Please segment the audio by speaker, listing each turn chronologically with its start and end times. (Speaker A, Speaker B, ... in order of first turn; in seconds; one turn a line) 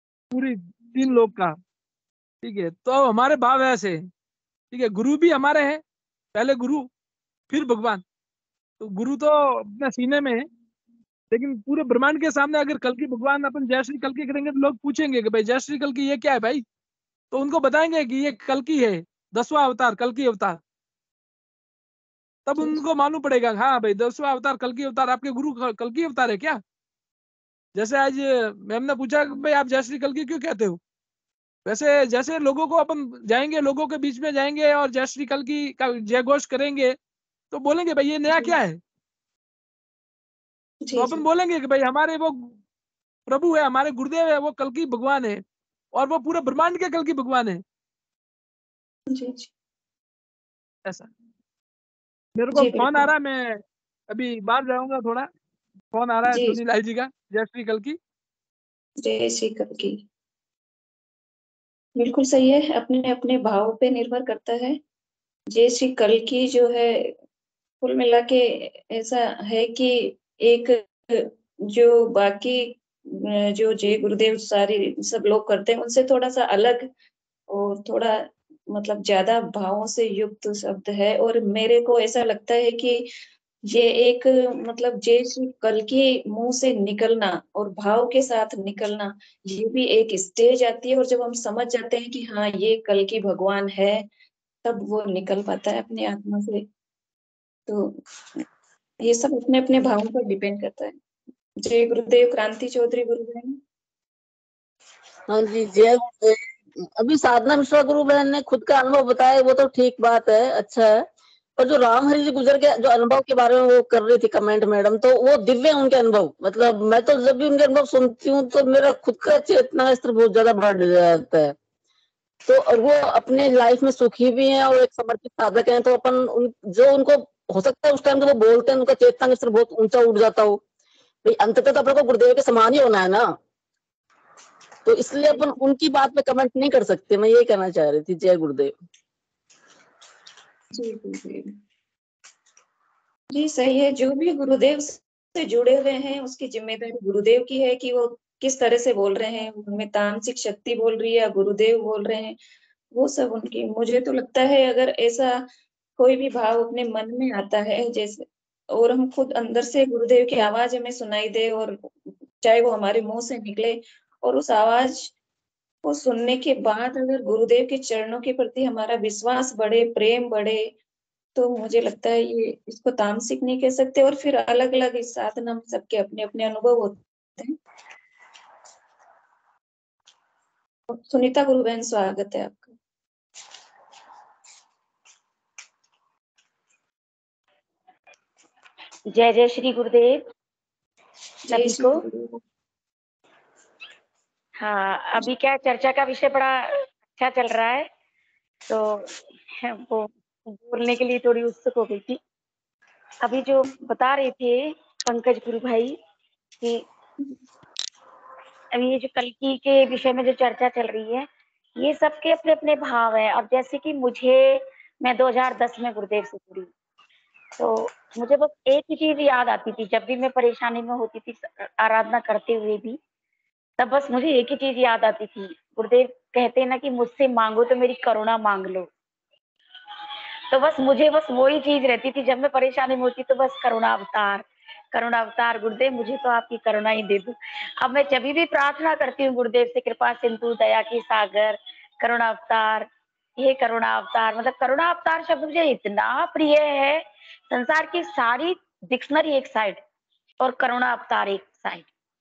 Speaker A: 0.3-1.6
Speaker A: 2.4-4.0
Speaker A: 4.7-5.8
Speaker A: 6.3-6.9
Speaker A: 7.5-8.0
Speaker A: 8.8-10.5
Speaker A: 11.3-16.6
Speaker A: 17.3-20.6
Speaker A: 22.5-26.6
Speaker A: 27.8-30.8
Speaker A: 31.7-37.0
Speaker A: 37.5-38.8
Speaker B: 40.8-41.2
Speaker A: 41.0-42.6
Speaker A: 43.3-45.4
Speaker A: 45.9-47.6
Speaker B: 49.1-49.5
Speaker A: 52.4-55.3
Speaker B: 52.5-53.1
Speaker A: 55.9-58.0
Speaker B: 56.3-56.6
Speaker B: 59.0-60.0
Speaker B: 62.0-64.8
Speaker B: 65.5-67.2
Speaker B: 67.8-76.9
Speaker B: 77.5-83.1
Speaker B: 83.7-94.1
Speaker B: 94.7-96.7
Speaker B: 97.7-98.4
Speaker B: 99.0-101.0
Speaker B: 101.6-103.6
Speaker C: 105.3-111.0
Speaker C: 111.6-121.5
Speaker C: 122.5-130.6
Speaker C: 131.2-133.3
Speaker C: 134.8-138.7
Speaker B: 140.7-141.6
Speaker B: 143.3-152.4
Speaker B: 152.9-155.4
Speaker B: 156.0-161.8
Speaker B: 162.4-165.1
Speaker B: 165.8-170.7
Speaker B: 171.3-177.6
Speaker B: 180.9-182.8
Speaker D: 189.1-190.2
Speaker B: 191.5-192.4
Speaker D: 191.5-192.0
Speaker D: 194.6-197.9
Speaker D: 198.7-202.2
Speaker D: 203.2-206.0
Speaker D: 208.7-216.7
Speaker D: 217.6-223.0
Speaker D: 223.8-228.9
Speaker D: 230.5-249.8
Speaker D: 250.4-251.9